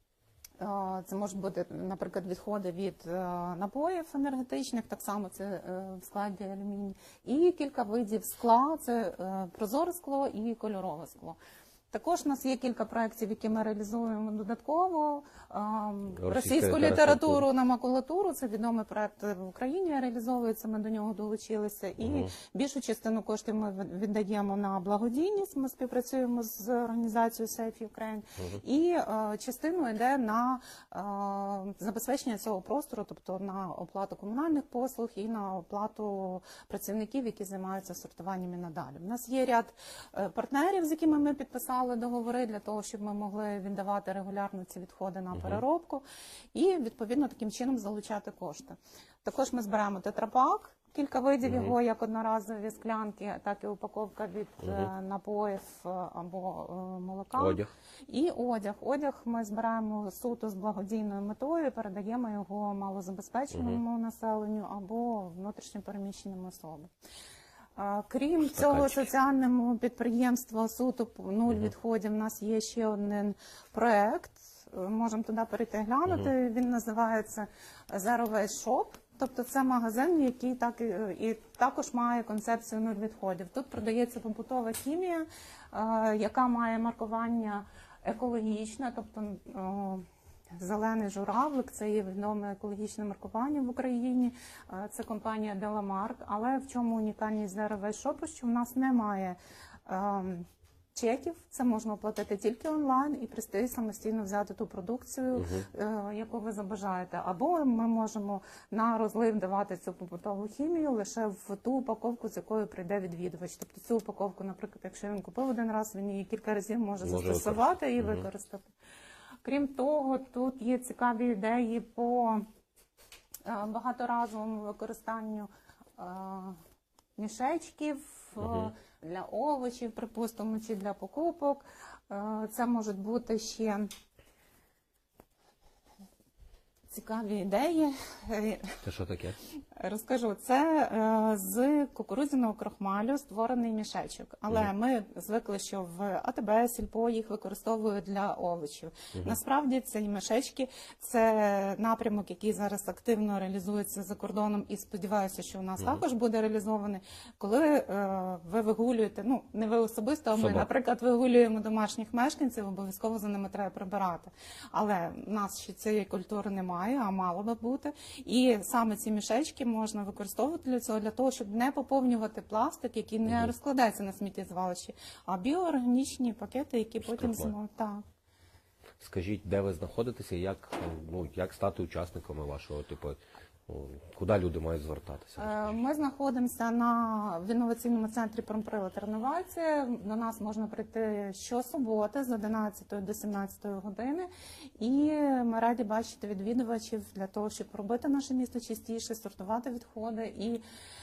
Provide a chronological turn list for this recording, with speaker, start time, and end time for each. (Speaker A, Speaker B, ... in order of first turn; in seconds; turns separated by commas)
Speaker A: 0.6-11.4, Speaker A: 11.9-66.9, Speaker B: 16.1-17.4, Speaker B: 22.0-22.3, Speaker B: 45.3-45.6, Speaker B: 51.4-51.8, Speaker B: 57.3-57.7, Speaker B: 63.5-63.8, Speaker A: 67.8-90.0, Speaker B: 68.4-69.0, Speaker A: 90.6-118.7, Speaker B: 105.3-105.7, Speaker B: 117.0-118.3, Speaker A: 119.4-122.4, Speaker A: 123.5-126.6, Speaker A: 127.2-133.9, Speaker B: 128.4-128.7, Speaker A: 136.9-138.8, Speaker B: 138.8-139.4, Speaker A: 139.8-178.0, Speaker B: 160.3-160.7, Speaker B: 173.2-173.5, Speaker B: 177.0-177.5, Speaker B: 179.0-185.8, Speaker A: 185.4-194.3, Speaker A: 194.8-200.6